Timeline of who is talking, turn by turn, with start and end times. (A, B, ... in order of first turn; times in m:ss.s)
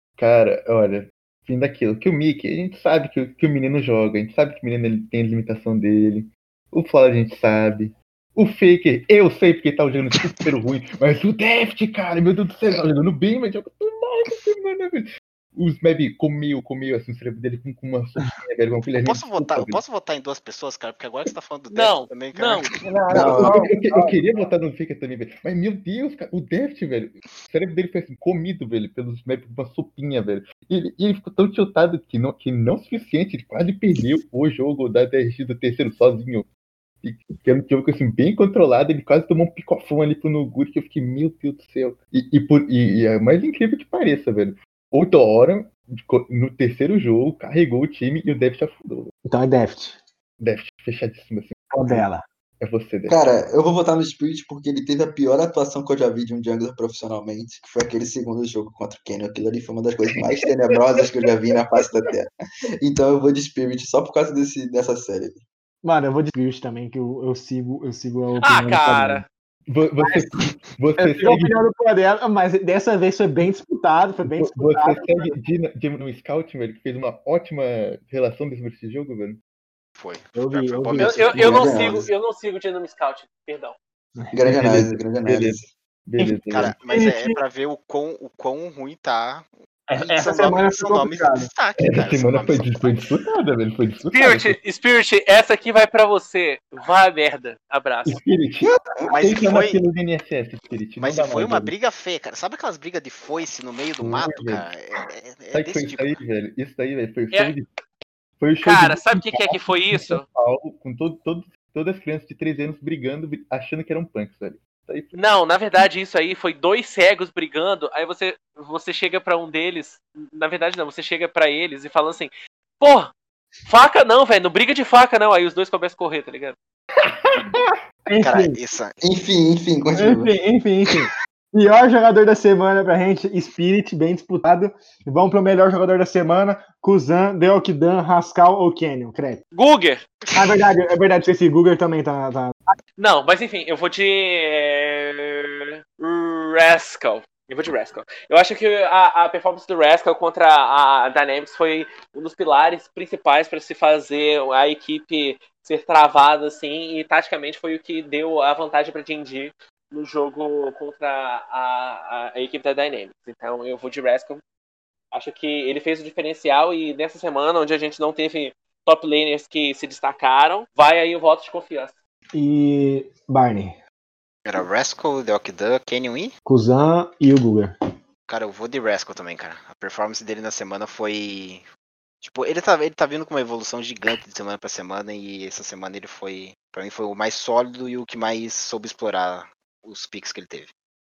0:00.2-0:19.8 A
0:19.0-0:23.0 B
0:21.7-0:22.7 C
0:22.8-0:24.2 D
0:23.1-0:36.5 A
0:23.2-0:23.6 E
0:37.0-0:49.1 A
0:49.3-0:50.0 D
0:50.4-0:52.1 A
0:51.7-0:52.3 D
0:52.6-0:53.2 A
0:53.1-1:05.4 E
1:05.8-1:09.2 D
1:08.4-1:09.3 C
1:09.7-1:11.6 A
1:10.0-1:10.3 D
1:11.0-1:15.2 D
1:14.3-1:19.4 A
1:20.0-1:21.9 B
1:20.4-1:21.6 D
1:21.0-1:22.1 E
1:21.0-1:23.8 C
1:24.3-1:25.7 E
1:24.5-1:26.7 A
1:26.5-1:33.0 B
1:26.9-1:27.4 D
1:29.9-1:31.5 D
1:31.8-1:34.6 A
1:34.1-1:38.2 C
1:38.1-1:41.7 A
1:38.6-1:39.1 E
1:39.1-1:39.8 B
1:41.0-1:46.1 B
1:44.0-1:44.7 A
1:45.5-1:47.7 A
1:48.4-1:55.1 A
1:48.6-1:50.2 C
1:55.1-2:03.1 C
2:03.7-2:06.6 C
2:08.1-2:08.6 D
2:08.2-2:09.0 B
2:09.0-2:10.3 E
2:09.9-2:19.4 D
2:19.5-2:20.0 C
2:20.3-2:20.5 B
2:20.3-2:22.6 D
2:23.0-2:44.4 C
2:45.1-2:52.0 C
2:52.3-2:53.8 D
2:54.4-2:56.3 B
2:56.5-2:57.8 D
2:58.3-3:01.6 B
3:02.2-3:10.7 B